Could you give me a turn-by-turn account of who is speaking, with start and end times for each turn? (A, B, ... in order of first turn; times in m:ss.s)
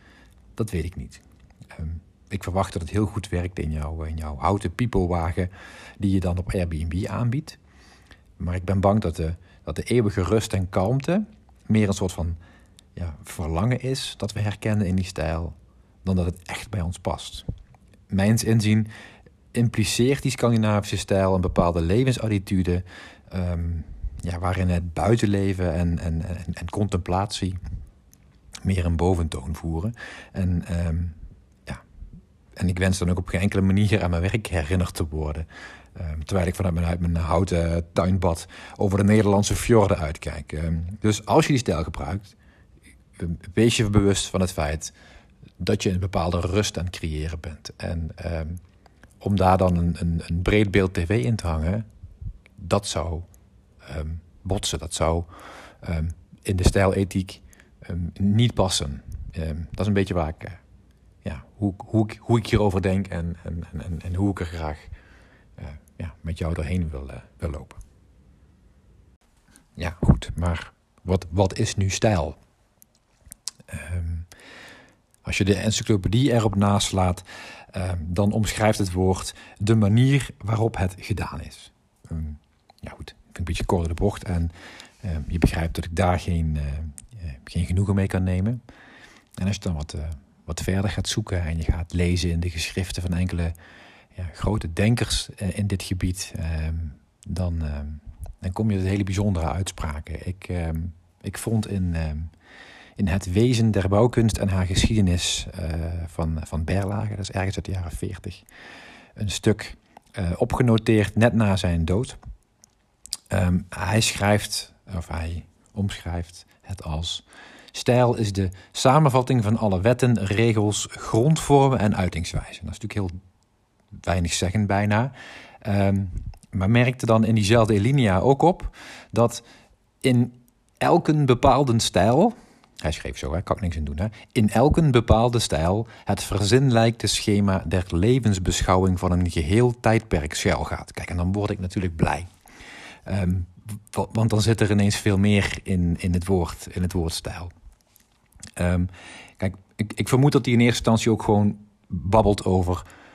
0:00.6-0:07.6 A
0:08.4-0:12.4 A
0:13.0-0:17.5 A
0:18.1-0:18.9 A
0:19.5-0:27.6 A
0:28.6-0:31.8 A
0:32.6-0:42.4 A
0:43.2-0:44.9 A
0:45.6-0:48.6 A
0:49.2-0:51.8 A
0:52.6-0:53.3 A
0:53.8-0:55.3 A
0:55.8-1:00.6 A
1:01.2-1:04.9 A
1:05.6-1:07.8 A
1:09.8-1:12.4 A
1:13.7-1:14.3 A
1:15.2-1:28.6 A
1:29.4-1:33.5 A
1:34.1-1:42.3 A
1:43.0-1:48.4 A
1:49.2-1:52.2 A
1:53.3-2:03.1 A
2:04.0-2:05.1 A
2:05.6-2:09.4 A
2:10.0-2:22.3 A
2:23.0-2:27.5 A
2:28.6-2:32.8 A